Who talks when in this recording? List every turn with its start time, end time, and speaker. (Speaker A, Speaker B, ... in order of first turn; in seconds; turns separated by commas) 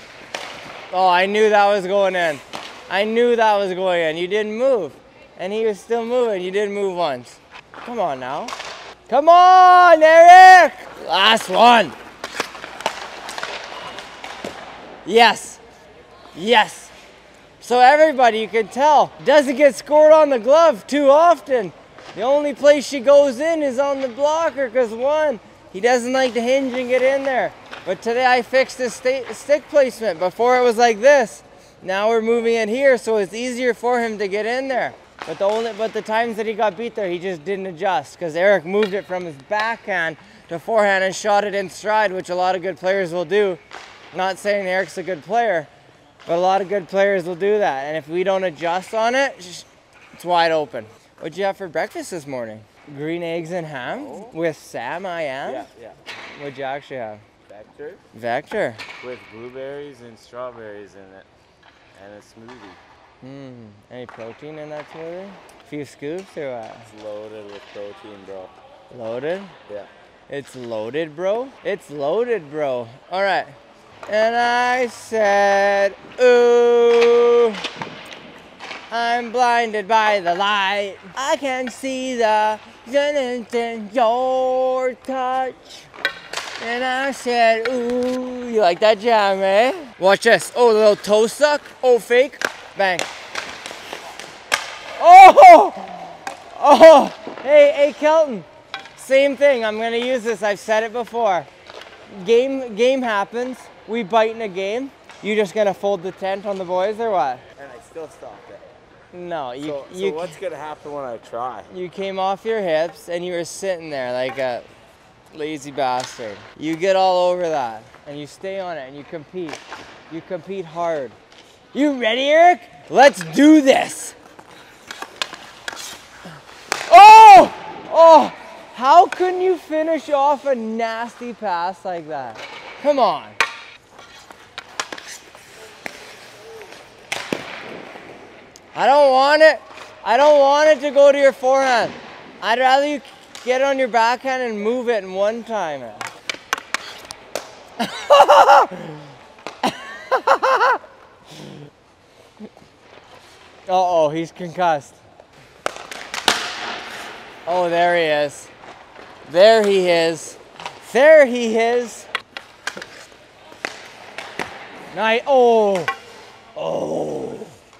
Speaker A: 0.9-8.5, Speaker A: 9.1-11.9, Speaker A: 15.1-15.6, Speaker A: 16.3-16.9, Speaker A: 17.6-43.6, Speaker A: 44.1-45.7, Speaker A: 46.3-55.7, Speaker B: 53.9-54.4, Speaker B: 55.5-56.0, Speaker A: 56.3-57.2, Speaker B: 57.5-58.0, Speaker A: 58.1-58.8, Speaker B: 59.0-61.3, Speaker B: 61.9-62.8, Speaker A: 63.2-66.9, Speaker B: 66.9-68.5, Speaker A: 68.9-69.5, Speaker A: 70.3-73.5, Speaker A: 74.1-77.6, Speaker A: 78.9-85.9, Speaker A: 86.6-93.1, Speaker A: 95.0-101.5, Speaker A: 102.1-107.4, Speaker B: 107.6-108.7, Speaker A: 109.1-110.3, Speaker B: 109.6-111.7, Speaker A: 111.7-114.7, Speaker A: 115.3-121.2, Speaker A: 121.7-124.2, Speaker A: 126.9-133.4, Speaker A: 138.7-146.1, Speaker A: 147.8-149.1, Speaker A: 149.6-150.8, Speaker A: 153.7-155.0, Speaker A: 157.5-158.5, Speaker A: 159.3-162.1, Speaker A: 164.9-165.9, Speaker A: 166.6-167.6